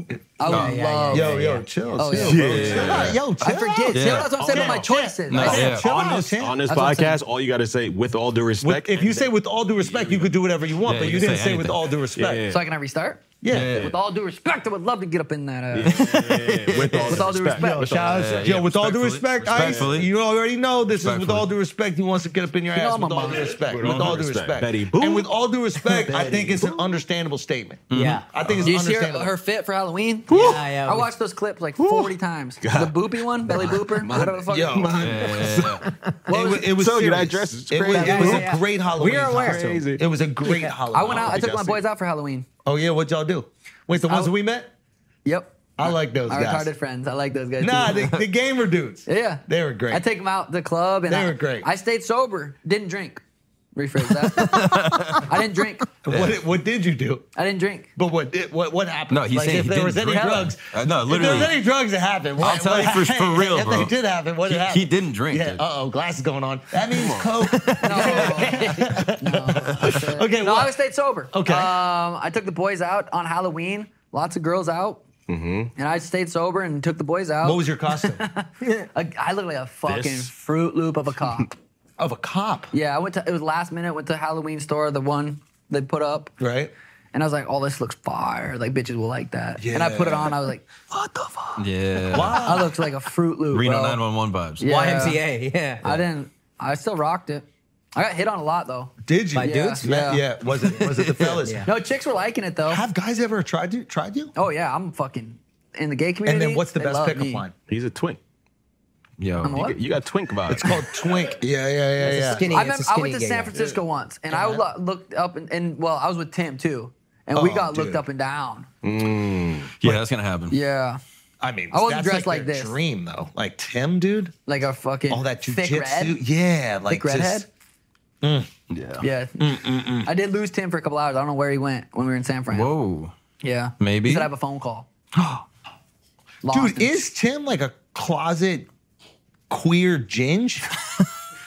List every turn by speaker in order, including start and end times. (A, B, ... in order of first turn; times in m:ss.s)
0:00.4-0:01.4 A
0:00.4-0:02.3 B
0:00.5-0:00.8 C
0:01.1-0:06.6 D
0:02.0-0:05.9 A
0:02.1-0:03.2 E
0:02.5-0:03.2 C
0:03.9-0:04.4 C
0:04.2-0:10.3 E
0:05.3-0:05.9 C
0:06.7-0:07.2 A
0:08.6-0:12.5 D
0:10.8-0:12.0 C
0:12.2-0:12.6 E
0:12.5-0:13.3 A
0:13.4-0:13.8 D
0:13.5-0:14.0 C
0:13.6-0:14.0 E
0:13.8-0:16.0 A
0:15.7-0:18.5 E
0:15.8-0:17.3 C
0:17.1-0:18.0 A
0:17.5-0:29.3 D
0:18.1-0:20.1 C
0:19.6-0:20.1 E
0:21.0-0:21.5 C
0:22.7-0:23.6 A
0:23.3-0:25.3 E
0:26.0-0:26.6 A
0:27.9-0:28.2 C
0:27.9-0:28.3 B
0:28.4-0:28.7 E
0:28.6-0:34.9 A
0:30.3-0:30.7 E
0:30.3-0:31.1 B
0:31.8-0:35.9 E
0:33.5-0:33.8 C
0:34.5-0:35.3 D
0:35.0-0:35.9 C
0:36.3-0:36.7 A
0:36.3-0:41.5 D
0:36.5-0:41.8 E
0:37.9-0:39.9 B
0:40.9-0:42.5 A
0:42.6-0:44.7 D
0:45.2-0:48.2 A
0:45.8-0:46.7 D
0:47.6-0:50.0 D
0:49.1-0:53.2 A
0:51.1-0:51.7 D
0:53.8-0:55.9 A
0:54.0-0:56.4 C
0:56.0-0:57.3 D
0:57.4-0:57.9 A
0:58.0-1:10.8 D
0:59.1-1:01.6 C
1:00.1-1:00.5 A
1:02.4-1:03.9 C
1:04.4-1:05.6 C
1:07.0-1:07.3 E
1:07.0-1:10.1 C
1:07.8-1:15.1 A
1:11.3-1:11.8 D
1:15.3-1:15.7 E
1:15.8-1:21.6 A
1:17.4-1:18.2 D
1:19.8-1:20.3 E
1:22.0-1:22.7 D
1:22.7-1:26.4 A
1:26.4-1:26.7 D
1:27.1-1:30.7 A
1:29.6-1:30.4 D
1:30.9-1:32.7 D
1:31.6-1:32.7 C
1:32.1-1:34.0 A
1:33.5-1:34.7 C
1:34.6-1:35.2 A
1:34.6-1:36.0 B
1:35.8-1:40.2 A
1:39.0-1:41.8 D
1:39.3-1:40.1 B
1:40.6-1:41.4 C
1:41.6-1:42.8 A
1:42.7-1:44.3 D
1:44.4-1:47.4 A
1:46.3-1:47.5 D
1:47.7-1:48.2 E
1:49.2-1:49.6 C
1:49.4-1:49.8 A
1:49.5-1:50.8 E
1:50.5-1:52.6 D
1:52.0-1:53.5 B
1:52.4-1:58.7 A
1:54.3-1:54.6 D
1:57.3-1:58.0 D
1:58.8-1:59.7 E
1:59.8-2:00.6 C
2:00.5-2:01.0 A
2:01.4-2:04.4 D
2:01.7-2:02.7 A
2:04.5-2:06.2 A
2:05.1-2:07.4 D
2:06.9-2:07.5 A
2:08.2-2:08.5 D
2:08.7-2:09.0 C
2:09.0-2:09.4 A
2:09.4-2:10.1 D
2:10.0-2:12.7 A
2:12.5-2:13.1 C
2:13.4-2:14.9 A
2:13.8-2:14.3 C
2:15.2-2:15.4 D
2:16.4-2:17.0 A
2:16.5-2:18.7 D
2:19.5-2:20.7 D